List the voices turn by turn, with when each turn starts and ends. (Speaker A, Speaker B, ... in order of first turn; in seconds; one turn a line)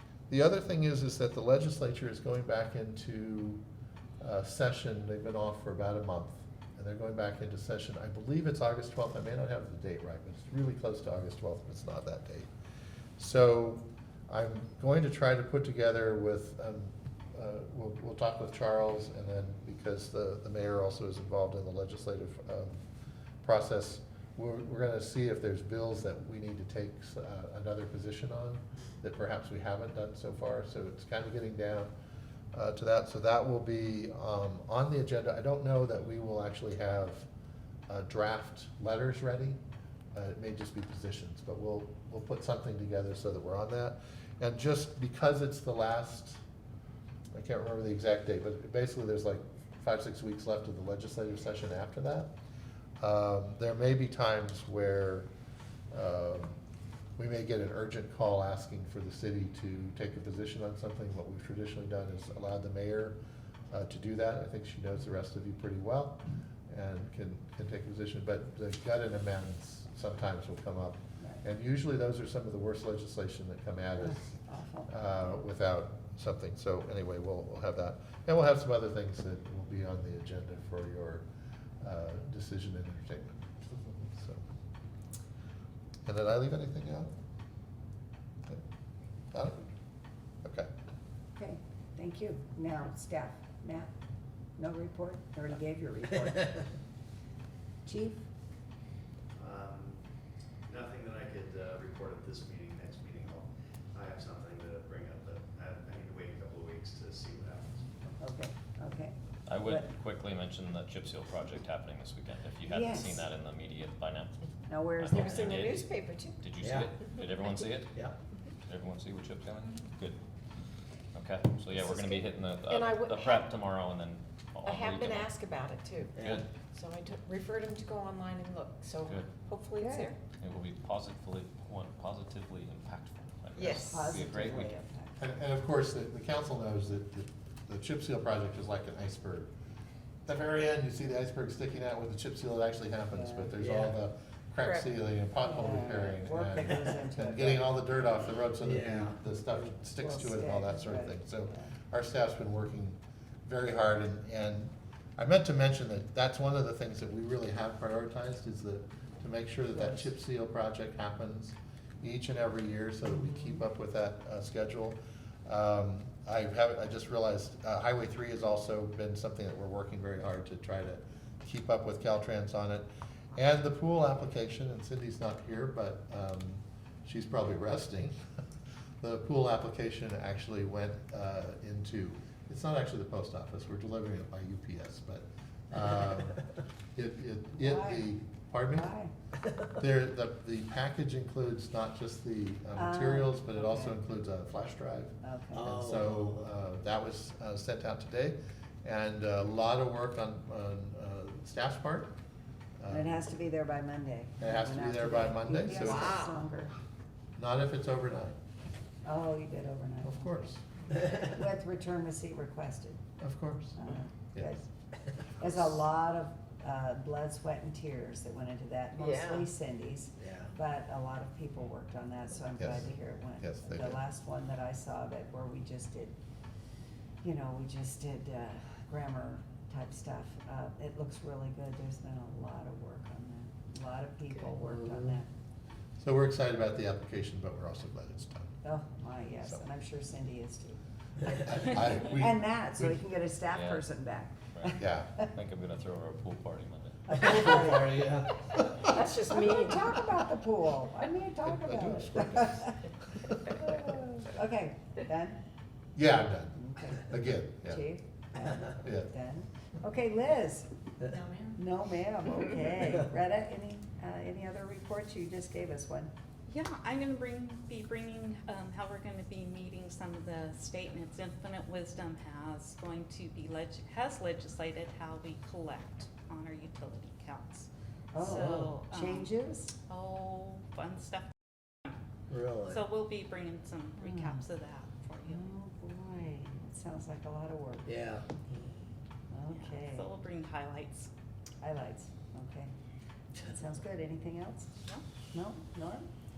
Speaker A: 0.3-3.6
Speaker A: 4.2-12.5
Speaker A: 13.2-22.8
Speaker A: 23.4-31.9
Speaker A: 32.5-37.3
Speaker A: 37.9-39.6
Speaker A: 40.1-46.4
Speaker A: 47.3-52.3
Speaker A: 53.0-55.3
Speaker A: 55.9-56.6
Speaker A: 57.2-63.2
Speaker A: 63.7-74.3
Speaker B: 74.0-74.9
Speaker A: 74.9-81.2
Speaker A: 81.8-83.4
Speaker A: 84.0-84.4
Speaker A: 86.0-87.1
Speaker A: 89.3-89.6
Speaker B: 91.3-93.9
Speaker B: 94.6-96.7
Speaker B: 97.8-98.2
Speaker C: 99.4-100.0
Speaker C: 100.7-108.0
Speaker B: 108.2-109.9
Speaker D: 109.5-114.4
Speaker B: 112.7-113.2
Speaker B: 114.7-115.5
Speaker D: 115.0-118.1
Speaker E: 115.1-116.4
Speaker F: 116.6-117.0
Speaker D: 118.6-120.2
Speaker D: 121.1-125.3
Speaker E: 121.8-123.5
Speaker E: 124.6-130.2
Speaker F: 126.1-126.5
Speaker D: 129.0-129.3
Speaker B: 129.8-130.1
Speaker D: 130.3-134.7
Speaker E: 133.6-134.0
Speaker B: 133.7-135.3
Speaker A: 135.2-139.5
Speaker A: 140.2-178.1
Speaker B: 143.1-143.5
Speaker F: 143.6-144.0
Speaker B: 145.4-147.7
Speaker F: 148.6-149.2
Speaker B: 150.0-151.7
Speaker A: 179.0-186.4
Speaker A: 186.9-188.9
Speaker B: 187.6-188.1
Speaker B: 188.7-189.1
Speaker A: 189.8-202.1
Speaker B: 192.7-194.0
Speaker B: 195.2-195.7
Speaker F: 195.5-196.5
Speaker A: 202.8-203.1
Speaker B: 202.9-206.7
Speaker A: 204.4-206.1
Speaker E: 205.8-206.3
Speaker A: 207.4-208.3
Speaker B: 209.0-213.0
Speaker A: 210.0-210.6
Speaker A: 213.2-213.8
Speaker B: 213.8-214.7
Speaker B: 215.4-226.1
Speaker E: 218.9-219.5
Speaker F: 220.2-220.5
Speaker A: 222.6-224.0
Speaker B: 227.2-235.3
Speaker A: 236.0-238.6
Speaker B: 238.6-245.2
Speaker A: 241.5-243.0
Speaker D: 243.5-243.8
Speaker D: 244.5-247.4
Speaker A: 244.8-245.2
Speaker B: 247.1-248.1
Speaker F: 247.2-248.7
Speaker B: 248.7-252.8
Speaker E: 248.9-250.0
Speaker A: 251.5-253.5
Speaker B: 253.5-255.4
Speaker A: 255.9-257.8
Speaker B: 256.5-260.7
Speaker A: 258.8-259.1
Speaker B: 261.5-266.1
Speaker G: 266.5-279.3
Speaker B: 278.1-279.7
Speaker G: 279.9-281.3
Speaker F: 282.3-282.8
Speaker G: 282.7-285.4
Speaker B: 284.0-284.4
Speaker B: 285.2-288.0
Speaker F: 287.9-288.6
Speaker B: 289.3-290.1
Speaker G: 289.5-291.1
Speaker B: 291.6-292.7
Speaker B: 293.4-294.7
Speaker B: 295.3-296.1